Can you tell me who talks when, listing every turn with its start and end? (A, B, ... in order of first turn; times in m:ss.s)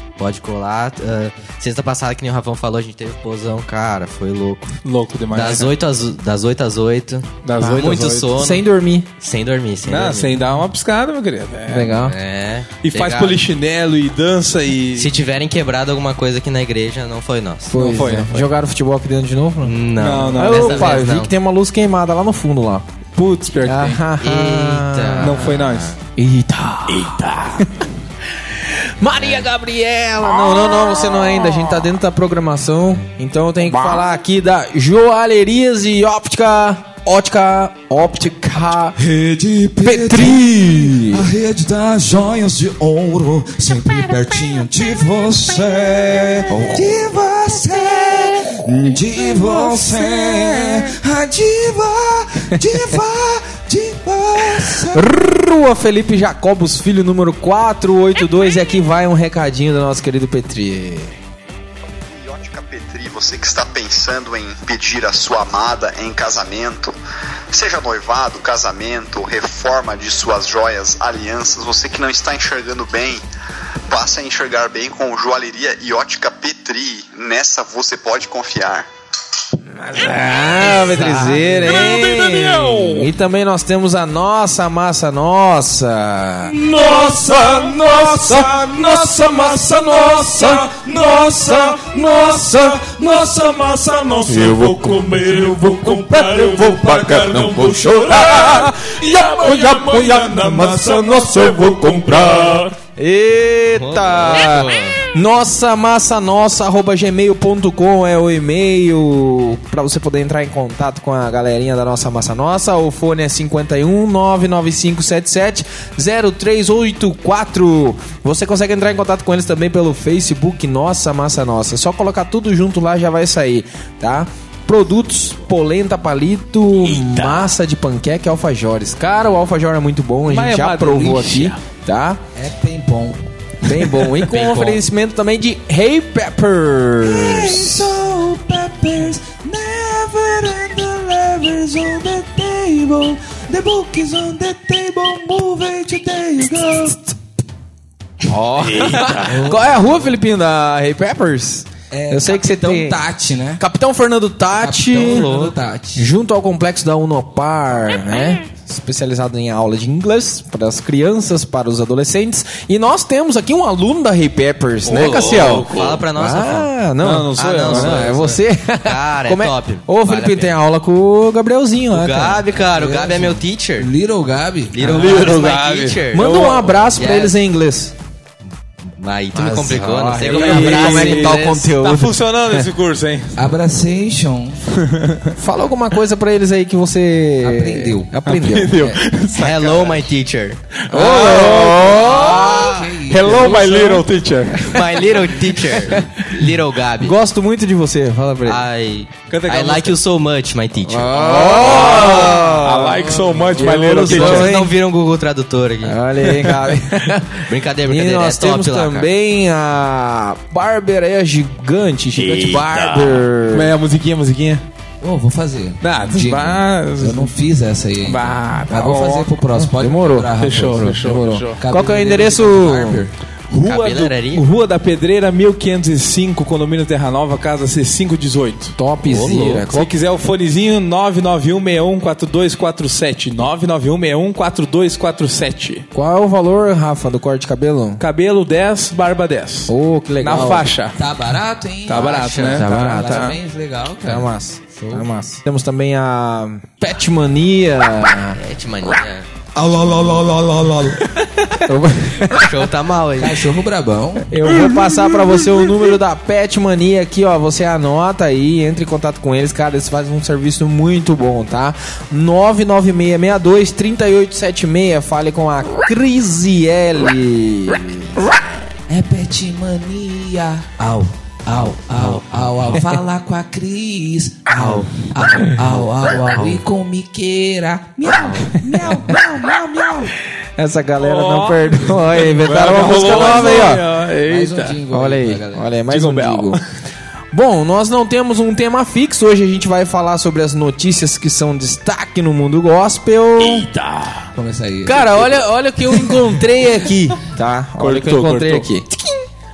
0:00.2-0:04.8 A
0:04.8-0:05.7 B
0:05.3-0:08.6 A
0:07.4-0:08.4 B
0:07.6-0:09.1 C
0:09.2-0:10.4 A
0:09.9-0:12.1 B
0:11.7-0:12.2 C
0:12.0-0:13.4 A
0:12.8-0:15.1 B
0:15.0-0:18.0 A
0:17.7-0:19.8 C
0:17.8-0:18.4 B
0:19.6-0:21.3 A
0:20.0-0:21.0 B
0:20.3-0:22.9 C
0:23.2-0:24.0 B
0:23.6-0:25.5 C
0:24.2-0:26.0 A
0:25.2-0:25.9 B
0:26.2-0:27.8 C
0:26.9-0:27.7 B
0:28.7-0:39.0 C
0:30.4-0:31.8 B
0:33.7-0:34.0 B
0:39.0-0:55.1 D
0:39.8-0:41.3 C
0:46.5-0:47.0 C
0:49.3-0:50.9 C
0:54.9-1:01.2 C
1:02.0-1:06.9 E
1:07.5-1:13.2 E
1:13.9-1:18.9 E
1:19.8-1:26.6 C
1:20.8-1:22.9 B
1:26.8-1:34.1 D
1:28.2-1:30.6 C
1:34.3-1:42.7 B
1:34.3-1:34.9 C
1:35.8-1:38.1 D
1:36.4-1:38.7 C
1:39.2-2:12.2 C
1:43.8-1:45.0 A
2:10.3-2:11.6 B
2:12.3-2:13.2 D
2:13.6-2:17.9 C
2:14.2-2:14.8 A
2:17.0-2:27.2 D
2:28.2-2:33.0 C
2:28.8-2:29.1 B
2:29.2-2:29.7 D
2:31.9-2:33.6 D
2:33.6-2:35.3 C
2:34.5-2:36.1 D
2:35.0-2:35.5 A
2:36.0-2:52.4 C
2:44.9-2:46.0 B
2:44.9-2:46.7 A
2:47.0-2:48.1 B
2:47.4-2:50.5 A
2:51.9-2:53.9 A
2:52.5-2:55.1 D
2:54.7-2:56.4 A
2:54.8-2:56.9 B
2:56.1-2:58.0 C
2:57.0-2:57.4 A
2:59.0-3:01.7 A
2:59.3-3:02.7 C
3:00.2-3:03.4 B
3:03.4-3:04.6 D
3:04.8-3:05.3 B
3:05.4-3:09.0 C
3:07.4-3:08.8 D
3:08.2-3:10.1 B
3:09.3-3:10.6 A
3:10.8-3:12.4 B
3:10.9-3:14.1 C
3:11.9-3:13.9 D
3:13.1-3:14.8 B
3:14.6-3:14.9 C
3:14.7-3:17.2 A
3:15.7-3:16.2 C
3:17.0-3:18.6 C
3:18.4-3:22.6 A
3:19.3-3:20.0 B
3:20.8-3:24.8 C
3:21.2-3:24.5 B
3:23.8-3:26.0 A
3:25.8-3:33.7 C
3:26.2-3:26.8 B
3:27.4-3:29.1 A
3:32.1-3:34.6 B
3:35.0-3:41.0 D
3:35.8-3:37.3 B
3:38.0-3:39.3 B
3:39.7-3:43.0 C
3:40.4-3:41.6 B
3:41.6-3:43.1 D
3:43.5-3:55.9 B
3:43.6-3:44.4 A
3:48.8-3:49.9 C
3:49.1-3:49.6 A
3:55.9-3:58.0 C
3:58.0-4:01.0 B
3:59.7-4:00.7 C
4:00.3-4:05.1 D
4:01.9-4:03.4 B
4:01.9-4:02.7 A
4:02.5-4:03.2 C
4:04.0-4:08.4 C
4:08.3-4:09.3 A
4:09.7-4:10.3 D
4:09.9-4:11.0 B
4:11.5-4:12.6 C
4:12.3-4:13.4 A
4:13.2-4:14.3 D
4:14.3-4:28.3 C
4:14.6-4:14.8 B
4:28.9-4:40.1 D
4:40.6-4:43.9 C
4:41.0-4:44.8 B
4:42.9-4:45.7 D
4:44.9-4:46.6 C
4:45.9-4:46.6 B
4:47.3-4:53.7 C
4:53.4-4:54.2 B
4:54.3-4:55.4 D
4:54.8-4:59.2 C
4:57.8-4:58.7 B